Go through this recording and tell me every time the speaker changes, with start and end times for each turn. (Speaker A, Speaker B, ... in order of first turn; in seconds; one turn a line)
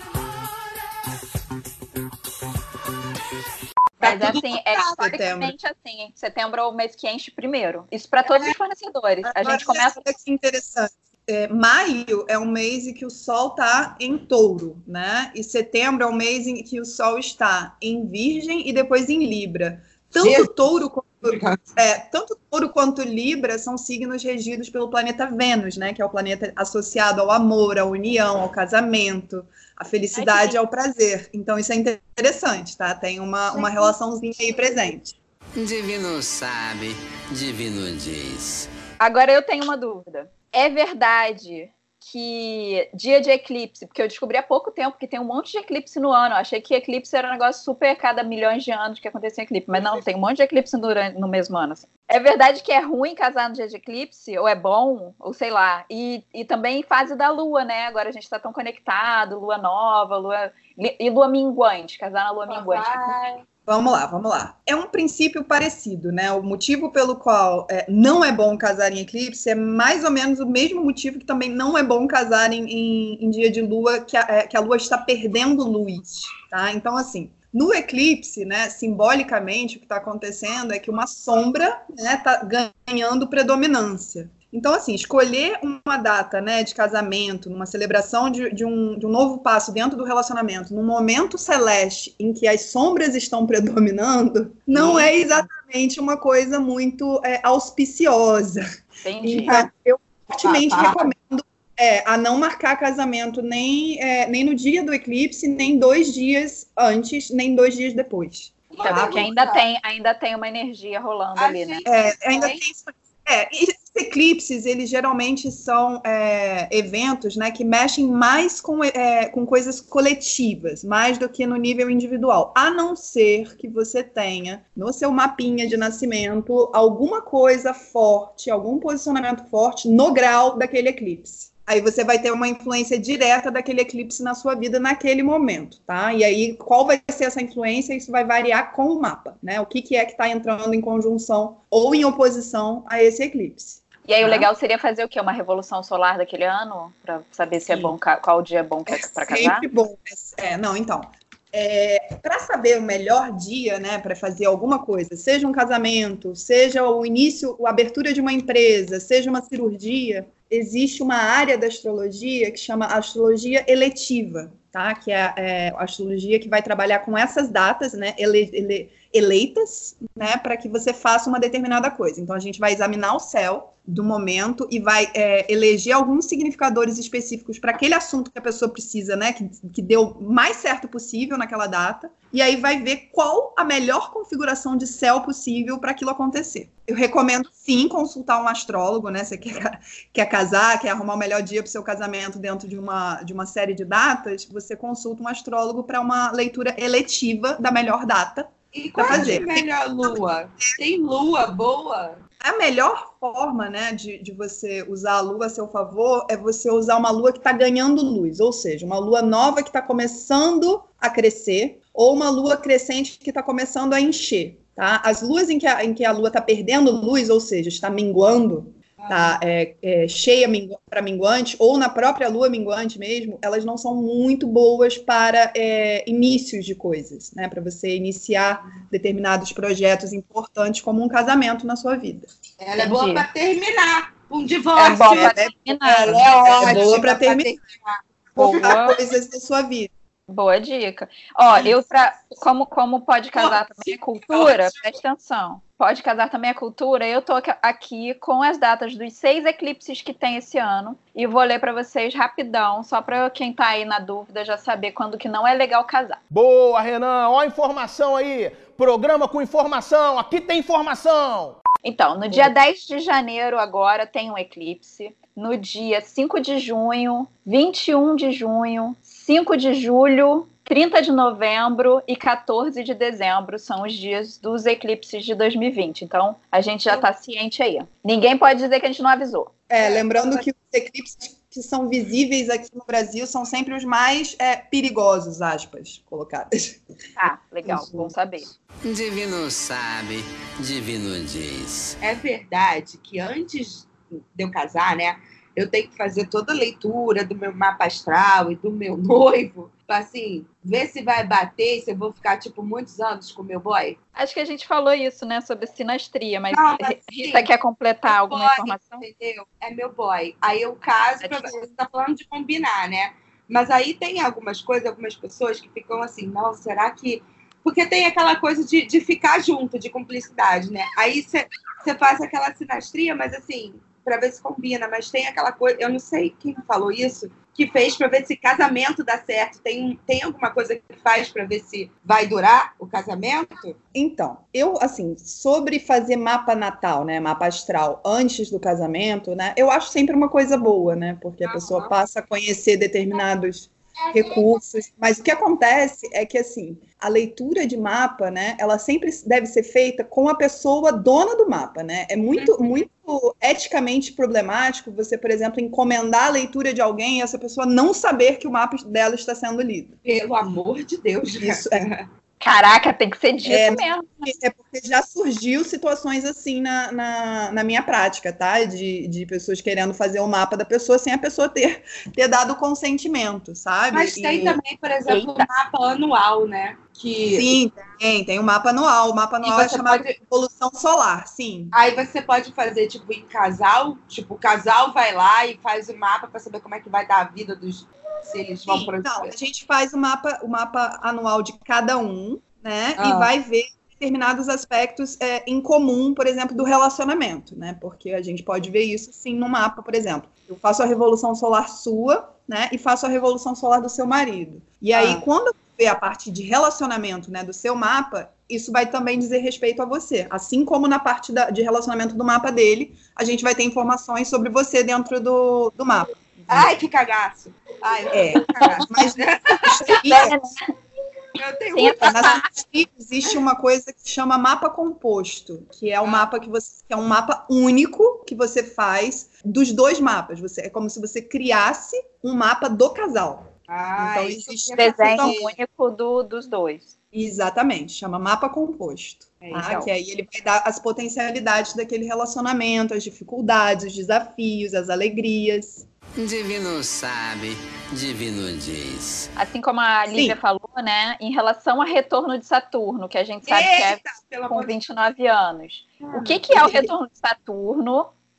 Speaker A: 4.0-4.9
Speaker B: 4.0-10.0
Speaker C: 5.0-5.5
Speaker A: 8.3-8.5
Speaker C: 9.2-35.1
Speaker A: 20.2-20.7
Speaker A: 21.2-21.6
Speaker B: 30.1-30.6
Speaker A: 33.5-33.9
Speaker D: 35.6-38.7
Speaker B: 39.0-63.1
Speaker A: 62.5-63.4
Speaker C: 63.7-98.6
Speaker A: 94.7-95.4
Speaker B: 99.0-99.6
Speaker A: 99.3-99.6
Speaker C: 99.3-109.3
Speaker A: 100.4-101.1
Speaker A: 108.7-109.6
Speaker B: 108.8-111.9
Speaker A: 111.4-112.6
Speaker C: 111.8-144.5
Speaker B: 144.1-149.7
Speaker C: 148.9-200.2
Speaker A: 198.7-202.2
Speaker B: 199.1-199.4
Speaker C: 202.4-232.3
Speaker A: 219.0-219.4
Speaker A: 232.6-235.3
Speaker B: 232.8-233.2
Speaker B: 234.8-237.0
Speaker C: 234.9-237.5
Speaker A: 236.0-238.8
Speaker B: 238.4-238.9
Speaker C: 238.4-239.9
Speaker B: 240.3-256.2
Speaker A: 243.3-244.9
Speaker E: 256.3-261.6
Speaker B: 261.8-279.5
Speaker C: 279.7-286.8
Speaker B: 287.2-288.5
Speaker C: 287.6-288.1
Speaker D: 288.8-292.0
Speaker A: 292.0-304.0
Speaker B: 304.1-309.0
Speaker A: 306.5-307.5
Speaker A: 308.1-333.8
Speaker B: 311.2-311.6
Speaker C: 333.9-359.9
Speaker A: 341.4-341.9
Speaker A: 352.3-352.7
Speaker A: 360.0-362.1
Speaker C: 361.4-361.9
Speaker B: 362.4-364.2
Speaker C: 363.4-374.6
Speaker A: 373.9-377.5
Speaker B: 375.1-375.5
Speaker C: 377.3-381.7
Speaker A: 379.4-380.1
Speaker A: 381.7-389.3
Speaker C: 388.7-416.7
Speaker A: 393.0-393.3
Speaker A: 404.9-405.2
Speaker A: 416.5-420.0
Speaker C: 418.1-420.5
Speaker B: 420.0-420.6
Speaker A: 421.4-422.4
Speaker B: 421.7-422.5
Speaker C: 422.0-435.3
Speaker A: 426.0-426.3
Speaker A: 433.7-435.6
Speaker B: 434.8-436.9
Speaker C: 437.1-445.9
Speaker A: 439.4-439.9
Speaker D: 446.2-449.3
Speaker B: 449.4-458.1
Speaker C: 450.1-450.4
Speaker A: 453.4-454.8
Speaker A: 456.0-456.4
Speaker C: 456.5-456.9